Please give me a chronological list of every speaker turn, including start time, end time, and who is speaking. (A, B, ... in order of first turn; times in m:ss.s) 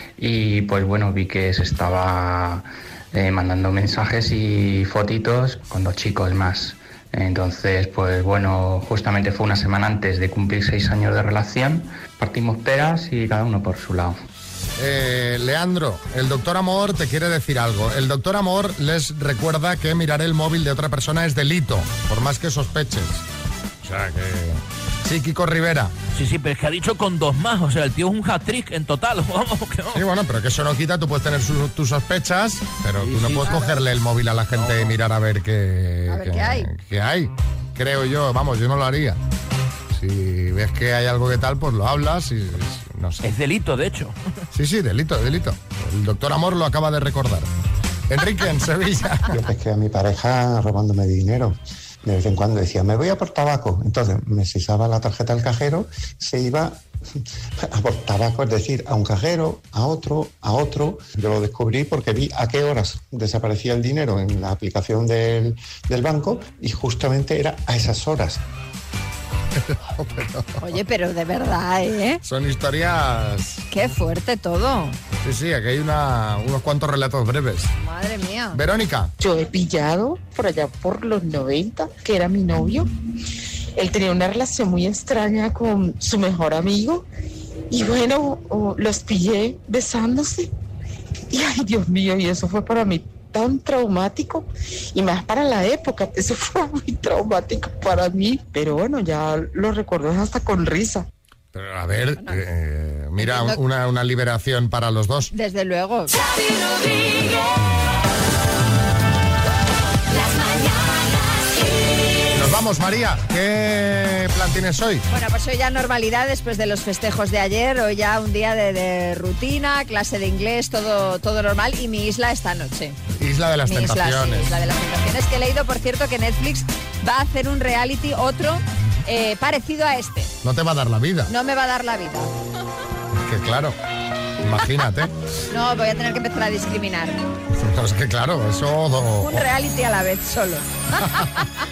0:00.2-0:14.2 A
0:14.8-0:23.2 B
0:23.8-0:25.9 B
0:26.1-0:30.0 C
0:29.9-0:39.2 B
0:36.1-0:36.7 D
0:39.9-0:43.3 B
0:43.2-0:44.1 C
0:44.5-0:47.5 B
0:48.1-0:49.3 B
0:49.3-0:56.8 E
0:57.7-1:08.4 E
1:09.6-1:10.8 B
1:10.6-1:12.2 D
1:12.2-1:13.6 B
1:13.7-1:15.0 D
1:15.2-1:17.7 B
1:17.8-1:18.6 D
1:18.5-1:19.1 B
1:19.2-1:22.9 F
1:23.8-1:27.1 F
1:27.7-1:30.5 F
1:31.3-1:41.1 F
1:41.5-1:45.3 B
1:43.2-1:43.6 D
1:45.3-1:46.2 D
1:52.3-1:55.1 B
1:55.1-2:03.0 D
2:03.2-2:04.5 B
2:03.6-2:10.3 D
2:10.4-2:11.3 B
2:11.3-2:12.3 D
2:13.2-2:13.8 B
2:14.4-2:15.1 B
2:15.5-2:17.2 D
2:17.6-2:19.5 B
2:19.2-2:21.4 D